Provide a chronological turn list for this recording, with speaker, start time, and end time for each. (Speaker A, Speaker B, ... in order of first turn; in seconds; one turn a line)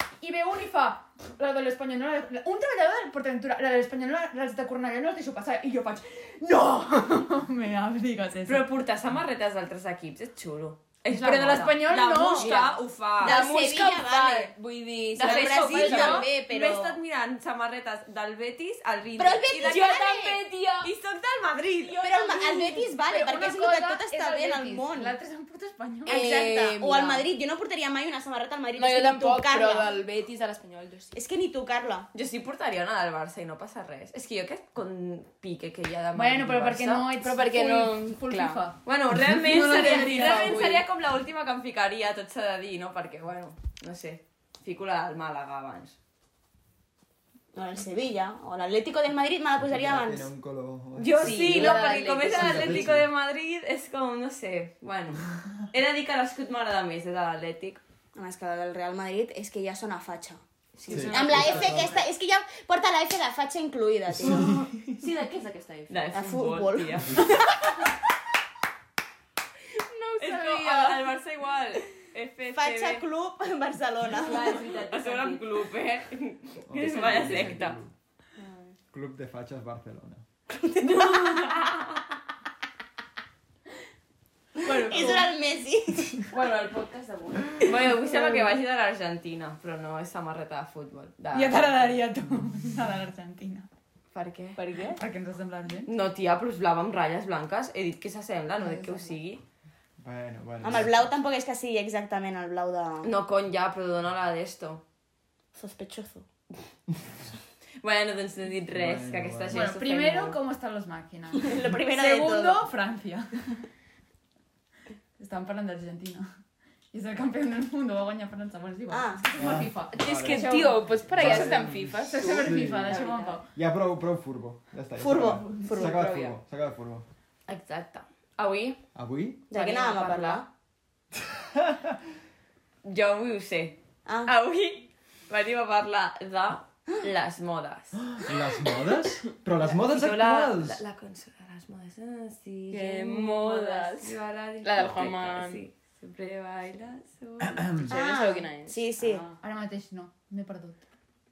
Speaker A: 0.2-8.7
Speaker B: 8.5-13.4
Speaker A: 11.1-12.8
Speaker C: 13.2-16.3
Speaker D: 13.2-14.5
Speaker D: 15.2-17.0
Speaker B: 15.2-19.9
Speaker A: 15.3-16.2
Speaker D: 19.2-20.4
Speaker C: 19.6-20.9
Speaker B: 20.8-22.0
Speaker C: 21.8-22.9
Speaker D: 22.0-25.1
Speaker A: 23.0-26.2
Speaker C: 26.1-27.3
Speaker D: 26.1-30.0
Speaker C: 28.7-31.1
Speaker D: 31.1-32.1
Speaker B: 32.1-37.1
Speaker A: 36.1-38.8
Speaker C: 37.2-38.6
Speaker B: 38.8-45.9
Speaker C: 39.4-40.8
Speaker A: 39.5-40.8
Speaker D: 47.5-50.3
Speaker E: 49.6-53.1
Speaker B: 51.0-57.8
Speaker C: 51.1-52.9
Speaker D: 58.1-60.4
Speaker C: 60.8-62.0
Speaker E: 60.9-62.0
Speaker D: 61.1-64.5
Speaker E: 64.1-65.0
Speaker C: 64.2-66.2
Speaker B: 65.9-67.3
Speaker D: 66.1-67.4
Speaker C: 69.8-71.0
Speaker B: 70.2-73.0
Speaker D: 72.5-74.6
Speaker C: 74.0-75.5
Speaker B: 74.2-77.8
Speaker E: 76.7-77.9
Speaker C: 76.8-77.6
Speaker D: 78.4-78.7
Speaker E: 78.9-80.2
Speaker D: 80.6-81.6
Speaker B: 80.8-82.0
Speaker C: 84.6-85.2
Speaker D: 84.6-86.3
Speaker A: 84.8-85.2
Speaker C: 86.3-88.4
Speaker B: 87.6-91.9
Speaker A: 91.3-93.7
Speaker B: 94.1-94.6
Speaker C: 94.5-95.0
Speaker A: 94.9-95.9
Speaker B: 95.9-99.4
Speaker A: 98.6-99.1
Speaker E: 100.0-101.1
Speaker D: 100.6-103.1
Speaker B: 103.0-104.8
Speaker D: 105.5-106.2
Speaker B: 107.8-110.4
Speaker E: 108.7-109.7
Speaker A: 109.5-113.6
Speaker D: 111.4-112.6
Speaker A: 115.2-116.3
Speaker A: 116.9-123.4
Speaker D: 118.9-119.5
Speaker E: 119.4-127.0
Speaker C: 119.9-123.4
Speaker D: 125.0-126.3
Speaker C: 125.7-126.0
Speaker B: 127.5-128.8
Speaker E: 128.9-129.4
Speaker B: 129.5-130.4
Speaker D: 129.5-130.5
Speaker E: 131.2-131.9
Speaker B: 132.8-138.2
Speaker D: 134.1-134.3
Speaker E: 138.1-140.8
Speaker B: 139.6-147.8
Speaker C: 142.7-145.6
Speaker E: 147.4-148.0
Speaker D: 147.9-149.2
Speaker C: 147.9-149.4
Speaker A: 149.4-150.9